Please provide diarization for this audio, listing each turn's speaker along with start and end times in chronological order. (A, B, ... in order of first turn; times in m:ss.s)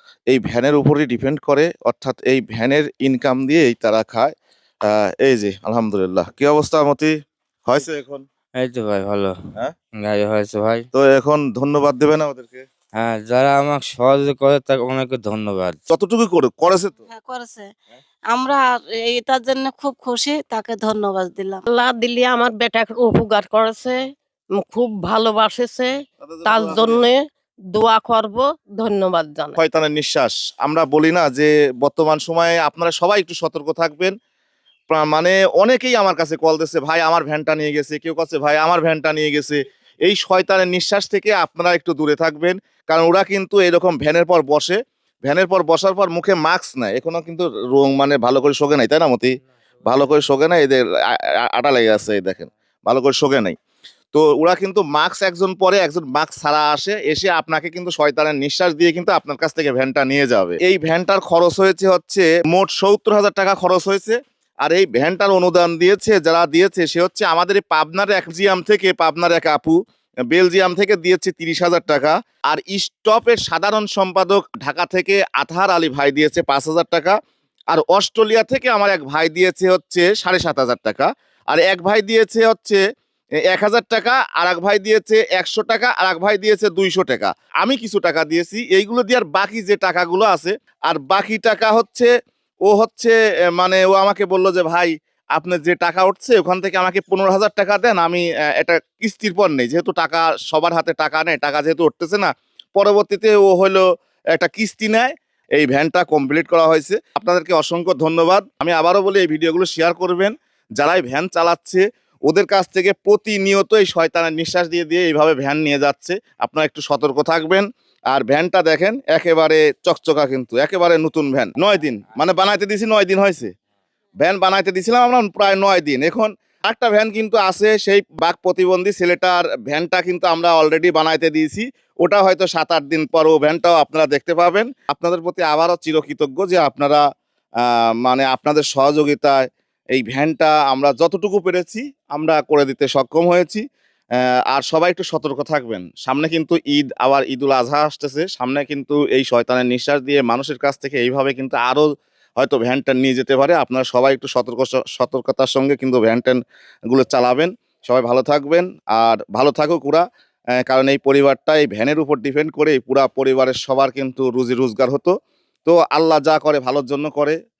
0:00.3-0:04.3 A
0:04.9-0:07.1 A
0:07.6-0:08.2 A
0:08.6-0:09.3 B
0:10.1-0:10.8 B
0:10.9-0:12.6 A
0:13.0-0:15.8 B
0:15.9-0:17.0 A
0:17.1-0:17.7 C
0:18.3-0:21.6 C
0:21.7-0:24.0 D
0:24.6-0:25.9 D
0:26.2-0:27.0 A
0:26.4-0:27.2 D
0:27.7-0:29.6 D
0:29.6-0:34.1 A
0:34.9-0:49.3 A
0:49.8-0:53.6 A
0:54.1-1:09.8 A
1:10.3-1:17.2 A
1:17.7-1:22.8 A
1:23.5-1:32.1 A
1:32.7-2:03.5 A
2:04.2-2:17.0 A
2:17.6-2:23.6 A
2:24.5-2:31.9 A
2:32.4-2:40.0 A
2:40.6-2:45.1 A
2:45.6-2:47.4 A